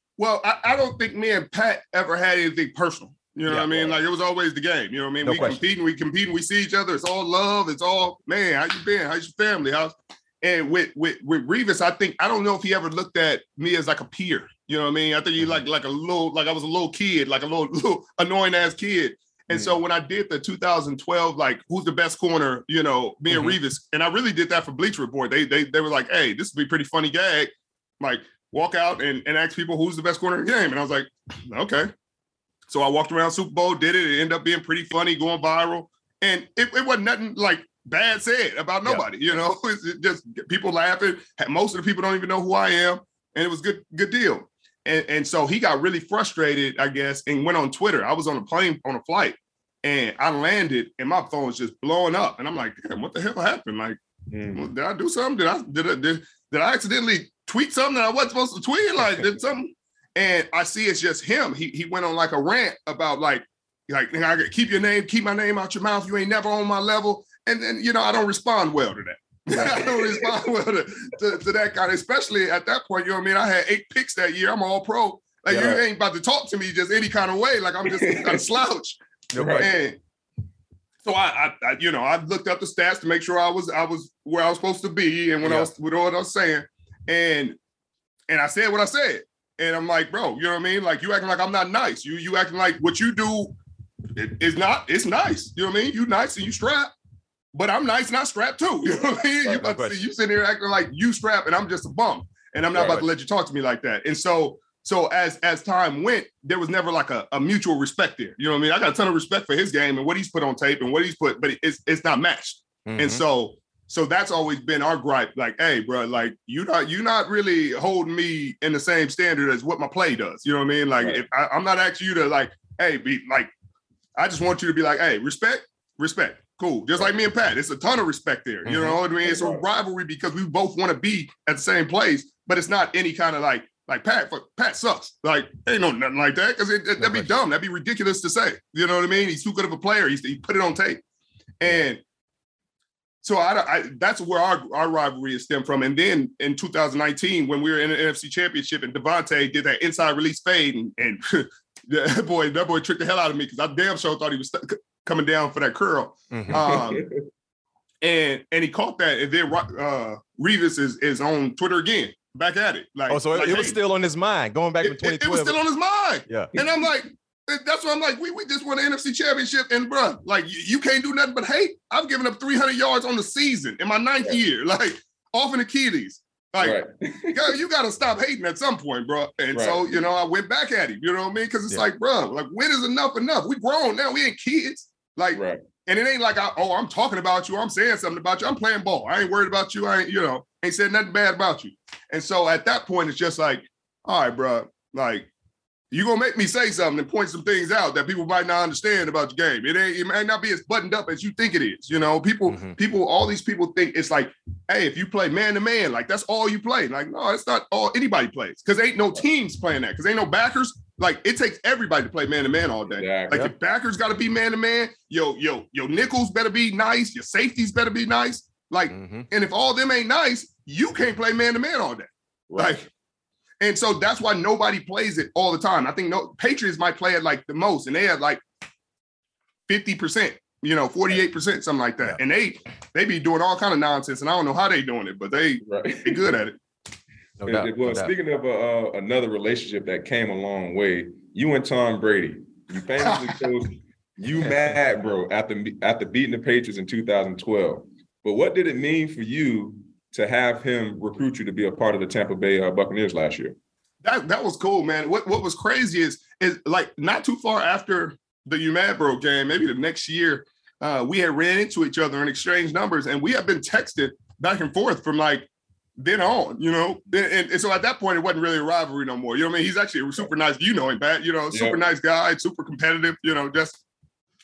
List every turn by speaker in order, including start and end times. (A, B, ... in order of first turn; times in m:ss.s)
0:00.2-0:31.9 A
0:03.5-0:03.9 B
0:05.2-0:05.6 B
0:32.7-0:54.0 A
0:54.3-0:54.6 C
0:54.5-1:19.0 A
1:09.5-1:09.8 B
1:09.9-1:10.2 C
1:15.5-1:15.8 B
1:17.8-1:18.4 C
1:19.3-1:19.7 B
1:19.4-1:19.7 C
1:19.5-1:20.0 A
1:21.0-1:27.6 A
1:25.4-1:25.7 B
1:28.3-1:33.6 A
1:34.2-1:36.9 A
1:37.5-2:03.5 A
1:39.6-1:40.0 B
1:42.7-1:43.1 C
1:52.9-1:53.2 B
2:01.0-2:01.2 C
2:04.2-2:21.0 A
2:08.6-2:09.0 B
2:09.2-2:09.6 C
2:17.0-2:17.3 B
2:21.6-2:22.0 A
2:23.2-2:37.0 A
2:36.3-2:36.6 B
2:36.5-2:37.2 C
2:38.0-2:43.8 A
2:43.1-2:45.6 B
2:44.8-2:56.8 A
2:56.6-2:57.5 C
2:57.3-3:15.3 A
2:59.5-2:59.8 C
3:05.3-3:05.6 C
3:15.9-3:42.9 A
3:22.5-3:22.8 B
3:32.9-3:33.5 C
3:38.9-3:39.3 B
3:42.5-3:42.8 C
3:43.6-3:48.4 A
3:49.7-3:56.6 A
3:55.7-3:56.3 C
3:57.4-3:58.1 B
3:57.4-4:13.6 C
4:03.0-4:03.4 A
4:04.4-4:04.8 B
4:14.0-4:33.8 A
4:31.5-4:31.8 C